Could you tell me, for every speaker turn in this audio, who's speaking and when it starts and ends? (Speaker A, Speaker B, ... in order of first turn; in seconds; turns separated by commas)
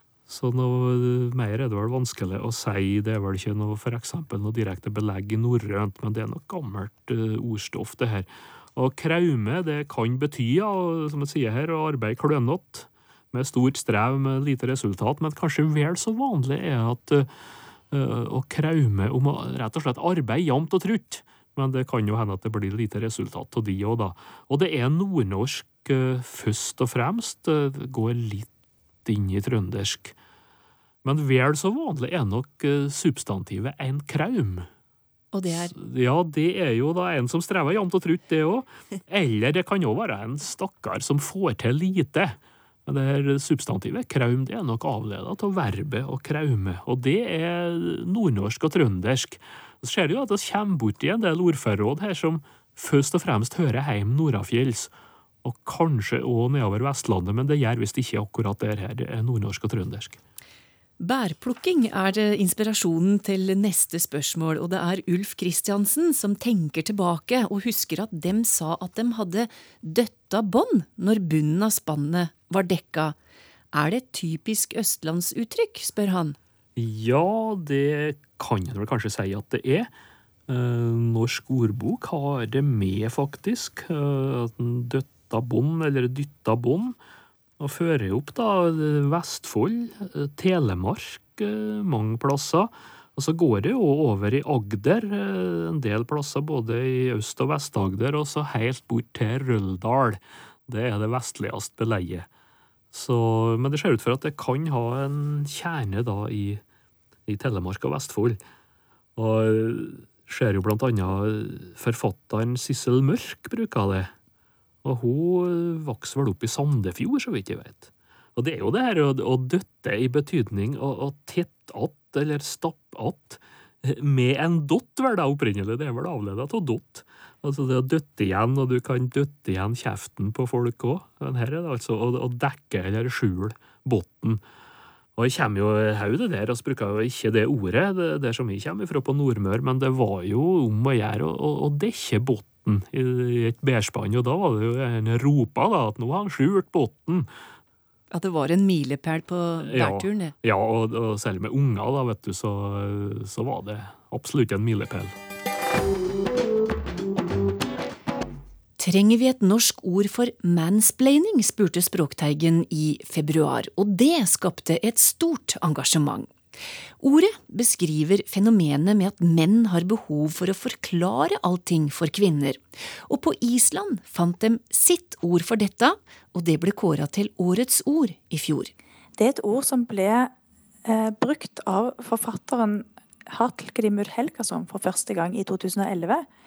Speaker A: 0.3-17.3, Speaker A: 17.9-28.5, Speaker A: 29.0-30.1, Speaker A: 31.0-34.6, Speaker B: 35.3-35.7, Speaker A: 35.5-54.9, Speaker A: 55.4-60.2, Speaker B: 61.0-73.2, Speaker B: 73.7-76.4, Speaker A: 76.8-79.9, Speaker A: 80.5-87.0, Speaker A: 87.6-102.3, Speaker A: 102.9-106.6, Speaker A: 107.3-108.4, Speaker A: 109.2-114.1, Speaker A: 114.8-134.4, Speaker A: 135.2-147.3, Speaker B: 148.1-150.3, Speaker A: 149.6-155.1, Speaker B: 158.8-166.3, Speaker B: 167.0-178.7, Speaker C: 179.2-180.3, Speaker C: 180.8-186.2